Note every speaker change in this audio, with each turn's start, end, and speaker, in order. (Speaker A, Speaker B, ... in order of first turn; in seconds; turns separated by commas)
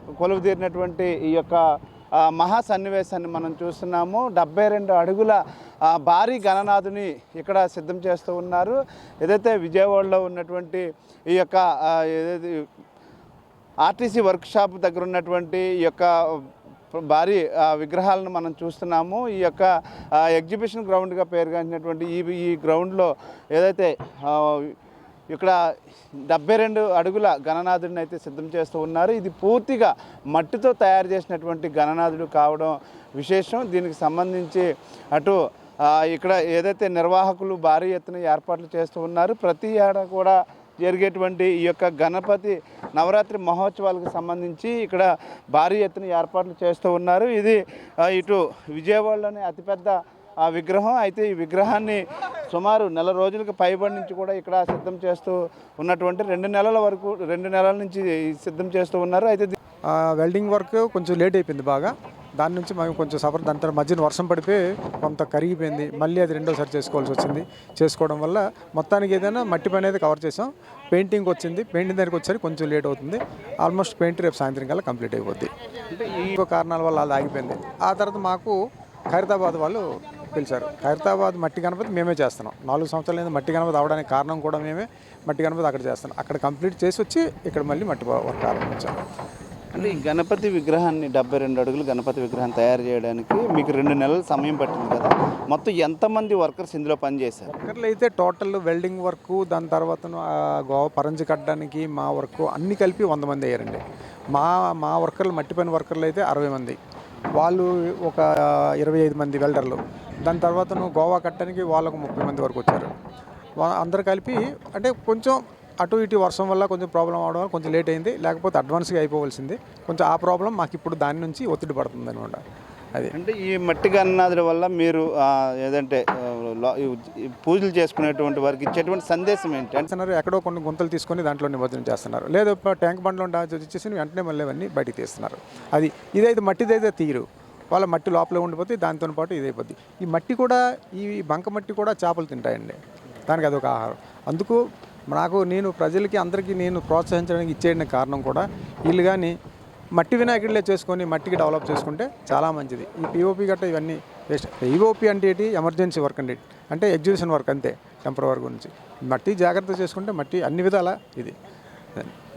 Speaker A: 0.2-1.6, Speaker A: 2.1-12.7, Speaker A: 13.8-24.8, Speaker A: 25.3-25.6, Speaker A: 26.3-59.6, Speaker B: 59.9-75.5, Speaker A: 75.9-76.4, Speaker B: 76.1-78.6, Speaker B: 79.1-89.0, Speaker A: 89.7-97.5, Speaker B: 97.5-103.8, Speaker B: 104.3-106.8, Speaker B: 107.4-112.9, Speaker B: 113.6-122.4, Speaker A: 123.1-129.9, Speaker B: 129.9-144.6, Speaker B: 145.1-149.3, Speaker B: 150.0-161.3